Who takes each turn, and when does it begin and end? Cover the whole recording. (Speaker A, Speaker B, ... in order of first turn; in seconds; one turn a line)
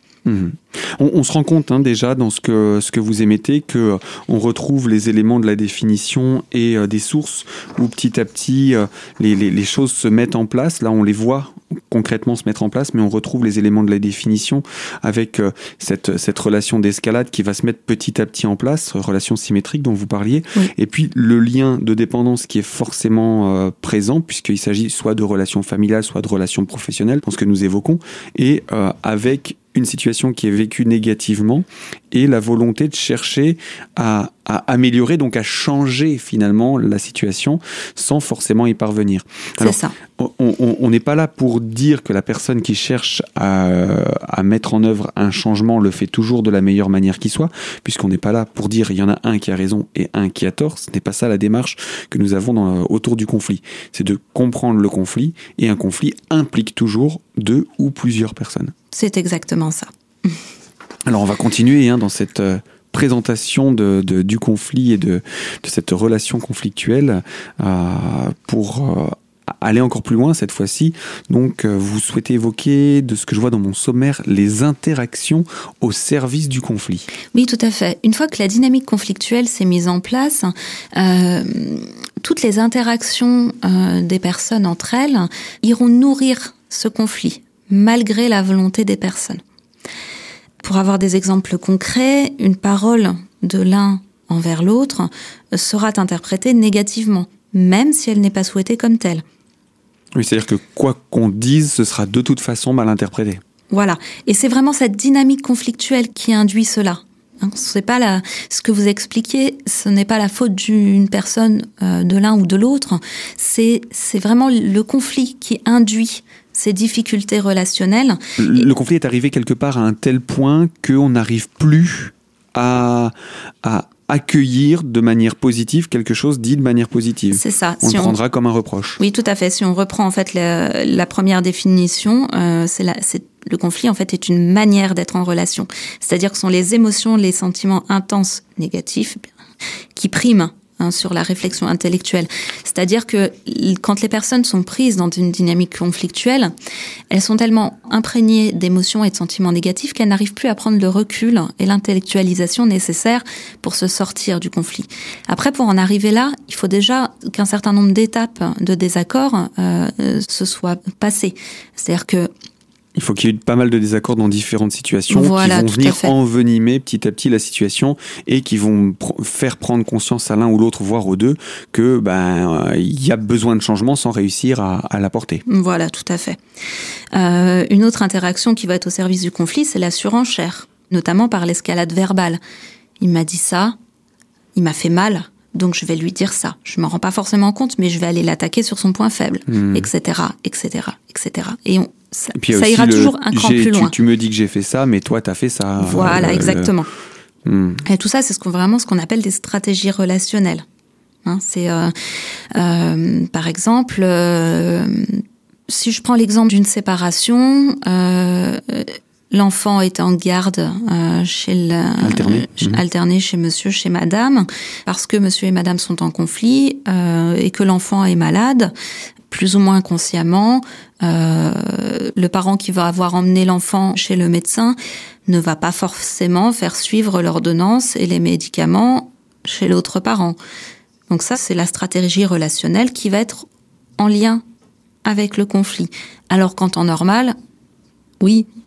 Speaker A: 0.2-58.7
Speaker B: 39.6-40.0
Speaker B: 58.9-59.9
Speaker A: 61.1-77.1
Speaker B: 77.3-89.4
Speaker B: 90.6-99.2
Speaker A: 100.2-103.4
Speaker B: 103.7-118.2
Speaker A: 118.4-129.0
Speaker B: 127.3-128.2
Speaker B: 129.0-139.3
Speaker B: 139.9-146.5
Speaker B: 147.1-162.3
Speaker A: 162.9-175.4
Speaker B: 165.1-166.1
Speaker B: 175.5-176.4
Speaker B: 177.1-182.4
Speaker B: 183.0-183.8
Speaker B: 184.6-193.9
Speaker A: 189.5-189.9
Speaker A: 192.4-196.7
Speaker B: 195.8-196.9
Speaker A: 197.5-197.8
Speaker B: 197.8-200.6
Speaker B: 201.2-201.9
Speaker B: 202.5-218.7
Speaker A: 212.0-212.8
Speaker B: 219.3-230.4
Speaker B: 231.1-233.5
Speaker B: 234.0-234.4
Speaker B: 235.1-237.3
Speaker B: 238.2-238.5